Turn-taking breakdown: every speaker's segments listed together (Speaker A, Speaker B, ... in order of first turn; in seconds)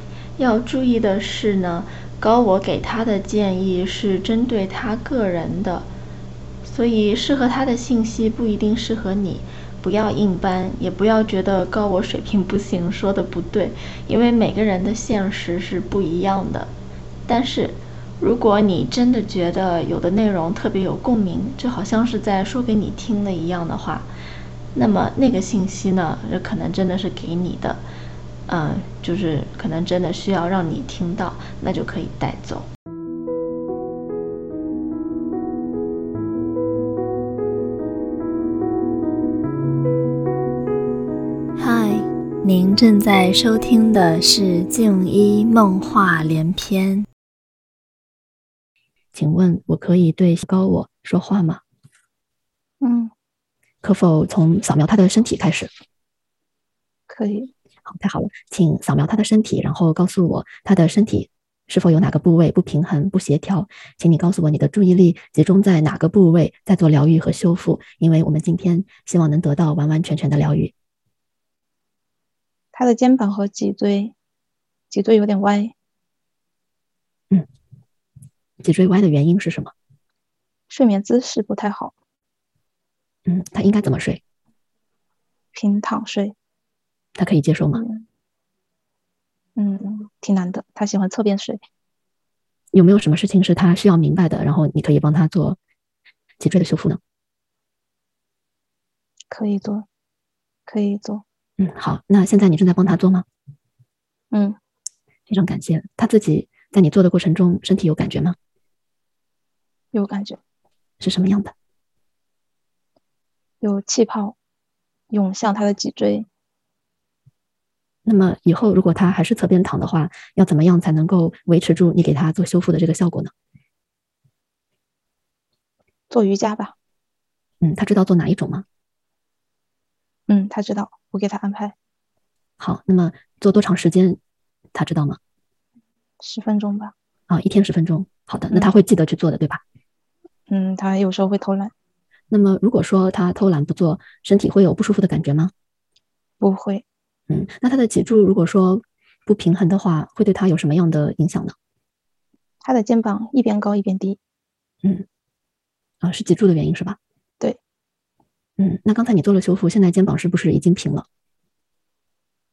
Speaker A: 0.4-5.9, 6.6-16.7, 17.2-24.1, 24.7-27.8, 28.5-32.7, 41.6-47.0
Speaker B: 49.1-51.6, 53.8-55.7, 57.8-70.7, 78.6-79.7, 83.2-84.2, 87.2-87.8, 92.7-95.6, 96.4-97.0, 101.6-103.2, 105.3-108.4, 111.0-111.5, 118.0-123.3, 127.6-128.7, 132.6-134.2, 134.7-135.2, 137.3-139.6, 142.3-145.5, 147.3-151.6, 156.0-157.0, 158.6-161.1
Speaker C: 52.8-53.1, 57.1-57.5, 72.7-74.1, 74.9-75.7, 80.7-81.9, 85.5-86.3, 87.7-88.0, 89.6-91.6, 99.3-99.9, 100.7-101.2, 104.3-104.6, 109.9-110.4, 113.6-114.4, 115.1-116.3, 126.1-126.8, 130.3-131.8, 136.2-136.9, 140.5-141.7, 146.4-146.8, 152.6-154.2